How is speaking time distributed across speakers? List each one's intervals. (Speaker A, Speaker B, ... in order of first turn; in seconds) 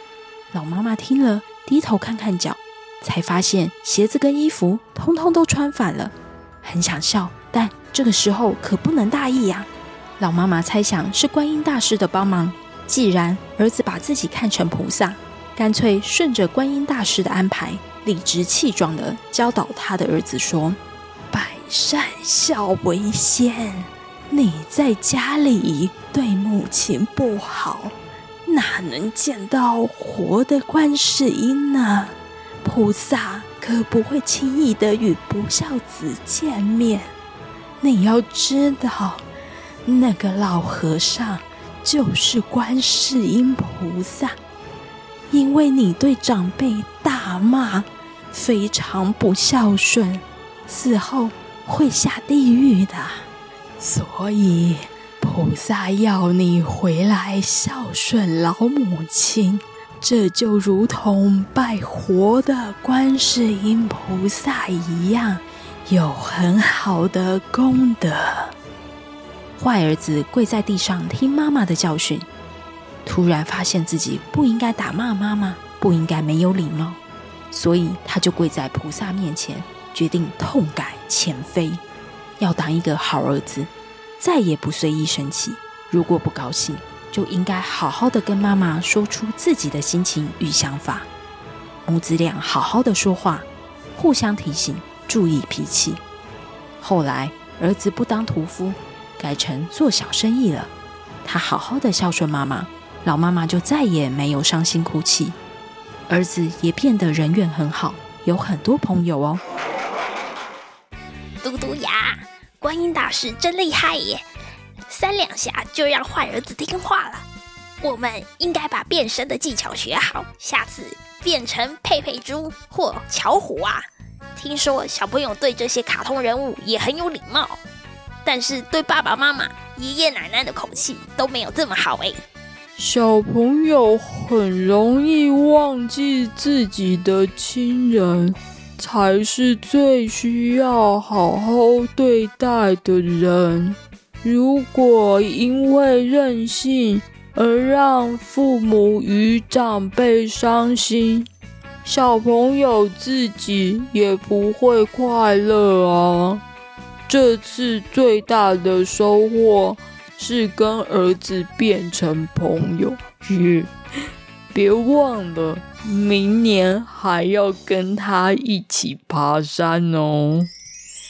Speaker A: 0.5-20.8, 21.3-27.9, 28.4-37.1, 37.8-39.2, 39.9-44.4, 45.3-53.3, 53.8-68.5, 69.6-72.3, 73.0-77.0, 77.5-81.8, 82.4-91.1, 91.9-96.0, 96.8-100.7, 101.2-105.4, 106.1-109.4, 113.0-114.2, 115.3-117.2, 118.2-118.8, 120.4-121.5, 122.6-123.7, 124.5-126.8
Speaker B: 111.4-114.1, 114.9-116.9, 117.8-123.8, 124.4-127.5, 128.3-132.2
Speaker C: 132.8-151.3, 151.8-156.4, 157.1-163.7, 164.5-170.5